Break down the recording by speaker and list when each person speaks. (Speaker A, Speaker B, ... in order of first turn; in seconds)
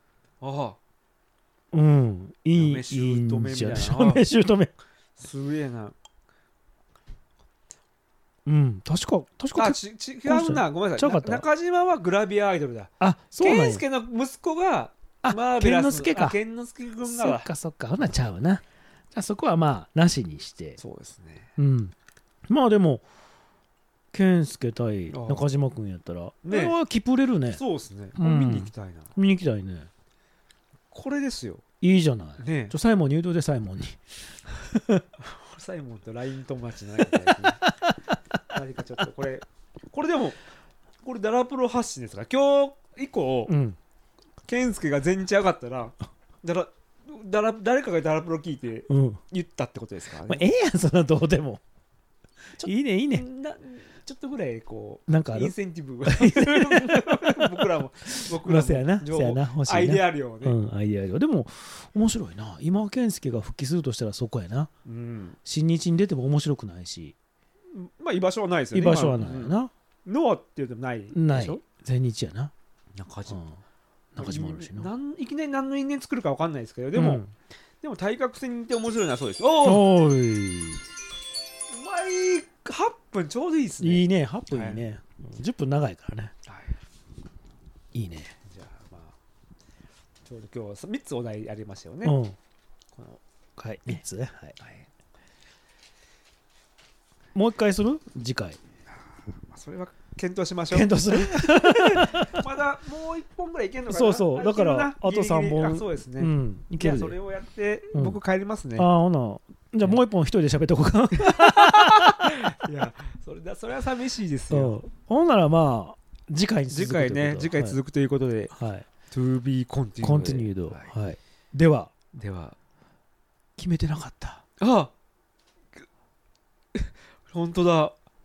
Speaker A: 0.4-0.8, 2.5-4.2, 5.2-5.9, 9.6-17.5, 20.8-21.5, 25.1-25.5, 26.4-26.8, 27.5-29.1, 30.9-31.6, 32.4-32.7, 35.2-37.7, 38.5-40.4, 41.0-43.5, 44.5-50.4, 52.6-60.6, 64.8-65.4, 67.7-71.6, 72.9-73.5, 74.2-77.2, 77.8-79.9, 81.7-84.8, 86.5-86.8, 88.4-89.2, 90.2-92.2, 92.9-93.2, 94.6-94.9, 99.5-108.9, 111.2-114.8, 116.7-118.5, 119.1-120.9, 122.1-122.5, 124.6-124.9, 126.7-127.9
Speaker B: 1.7-4.7, 8.4-11.4, 13.0-13.8, 15.2-16.4, 17.0-20.8, 21.6-21.9, 22.5-23.0, 24.1-27.6, 28.2-29.9, 31.8-35.0, 43.5-43.8, 48.9-49.2, 50.3-51.6, 52.6-53.2, 55.1-55.5, 56.1-64.7, 65.4-67.2, 68.7-69.7, 71.1-72.5, 73.3-73.5, 74.1-74.9, 76.9-77.3, 79.6-80.8, 83.8-86.3, 87.9-88.3, 92.0-92.3, 93.6-94.5, 97.3-98.6, 100.7-102.5, 103.9-107.2, 107.9-108.2, 108.8-112.4, 114.5-117.8, 118.5-118.9, 120.0-121.9, 123.6-124.4